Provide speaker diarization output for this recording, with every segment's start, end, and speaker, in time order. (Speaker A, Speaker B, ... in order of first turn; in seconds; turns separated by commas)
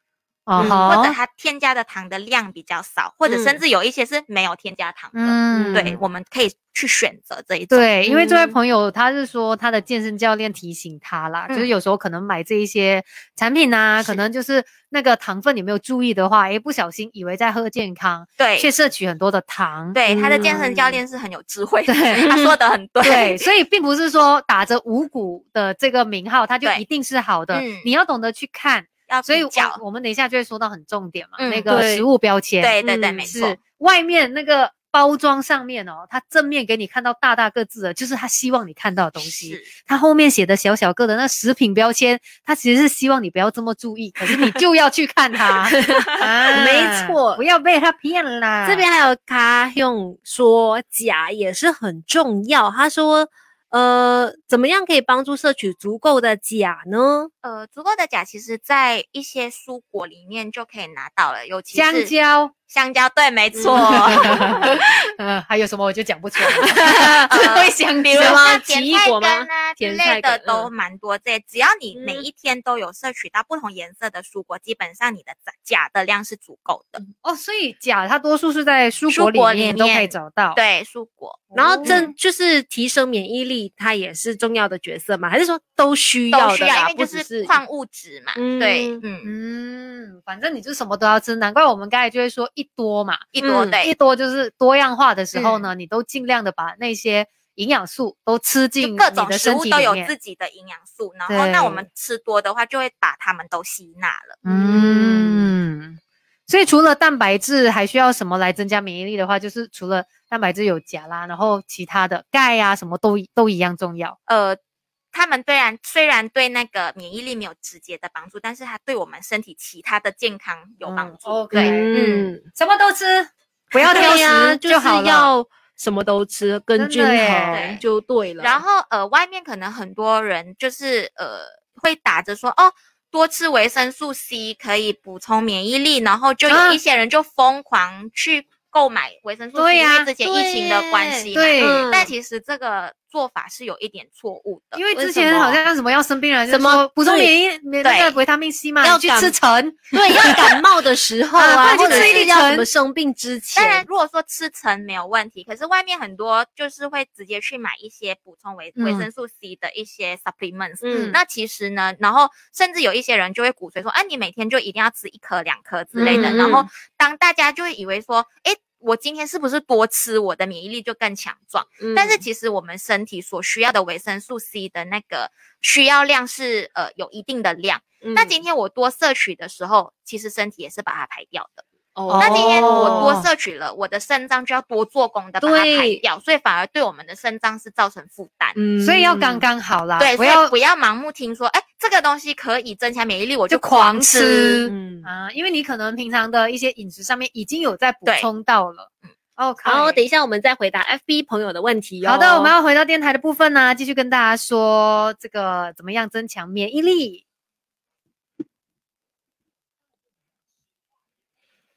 Speaker A: 0.5-1.2, Speaker B: 0.6-0.9, Speaker C: 0.6-7.9, Speaker B: 3.3-3.6, Speaker A: 5.2-6.0, Speaker B: 5.5-6.0, Speaker A: 7.7-21.0, Speaker B: 8.1-8.6, Speaker C: 18.4-18.7, Speaker C: 19.9-23.5, Speaker B: 20.3-20.7, Speaker A: 21.9-22.5, Speaker A: 23.0-48.9, Speaker C: 27.5-27.9, Speaker C: 29.1-29.8, Speaker C: 31.4-31.8, Speaker B: 31.7-32.1, Speaker C: 32.6-33.6, Speaker B: 32.8-33.3, Speaker C: 39.2-39.7, Speaker B: 44.3-44.6, Speaker B: 45.7-47.4, Speaker B: 48.6-57.3, Speaker C: 57.4-62.1, Speaker A: 61.7-62.5, Speaker C: 62.7-64.9, Speaker B: 63.5-64.7, Speaker A: 63.7-68.5, Speaker B: 66.6-67.2, Speaker C: 66.9-77.0, Speaker B: 68.1-70.7, Speaker B: 72.0-72.3, Speaker A: 77.2-80.6, Speaker C: 79.1-82.1, Speaker A: 81.5-82.1, Speaker B: 81.5-87.6, Speaker C: 86.3-89.3, Speaker B: 88.3-89.0, Speaker A: 89.2-93.3, Speaker C: 93.3-93.9, Speaker B: 93.4-93.8, Speaker A: 93.8-100.1, Speaker C: 95.3-95.7, Speaker C: 98.8-104.4, Speaker A: 101.3-101.9, Speaker A: 104.4-114.2, Speaker B: 104.5-105.5, Speaker C: 114.3-114.6, Speaker C: 115.1-122.3, Speaker A: 120.8-121.9, Speaker B: 121.5-122.4, Speaker A: 122.5-125.3, Speaker B: 123.8-128.6, Speaker C: 123.9-124.2, Speaker A: 126.8-127.7, Speaker C: 127.5-127.8, Speaker C: 128.4-144.8, Speaker A: 136.5-136.8, Speaker A: 139.6-140.1, Speaker B: 140.2-142.1, Speaker A: 141.3-141.9, Speaker A: 144.8-150.5, Speaker B: 144.9-145.6, Speaker B: 146.5-147.3, Speaker C: 147.8-148.2, Speaker B: 148.8-149.3, Speaker B: 149.9-153.8, Speaker A: 151.4-152.7, Speaker C: 151.5-152.3, Speaker C: 153.6-181.7, Speaker A: 158.8-159.1, Speaker B: 160.8-161.2, Speaker A: 160.9-161.2, Speaker B: 166.0-166.7, Speaker A: 166.0-166.5, Speaker B: 171.8-172.2, Speaker B: 178.0-178.4, Speaker B: 182.0-183.2, Speaker A: 182.1-183.3, Speaker C: 182.2-188.6, Speaker B: 185.4-186.0, Speaker B: 188.6-189.5, Speaker A: 188.8-190.5, Speaker C: 190.0-194.6, Speaker A: 193.5-200.0, Speaker B: 194.7-195.1, Speaker B: 199.7-202.5, Speaker A: 202.0-207.2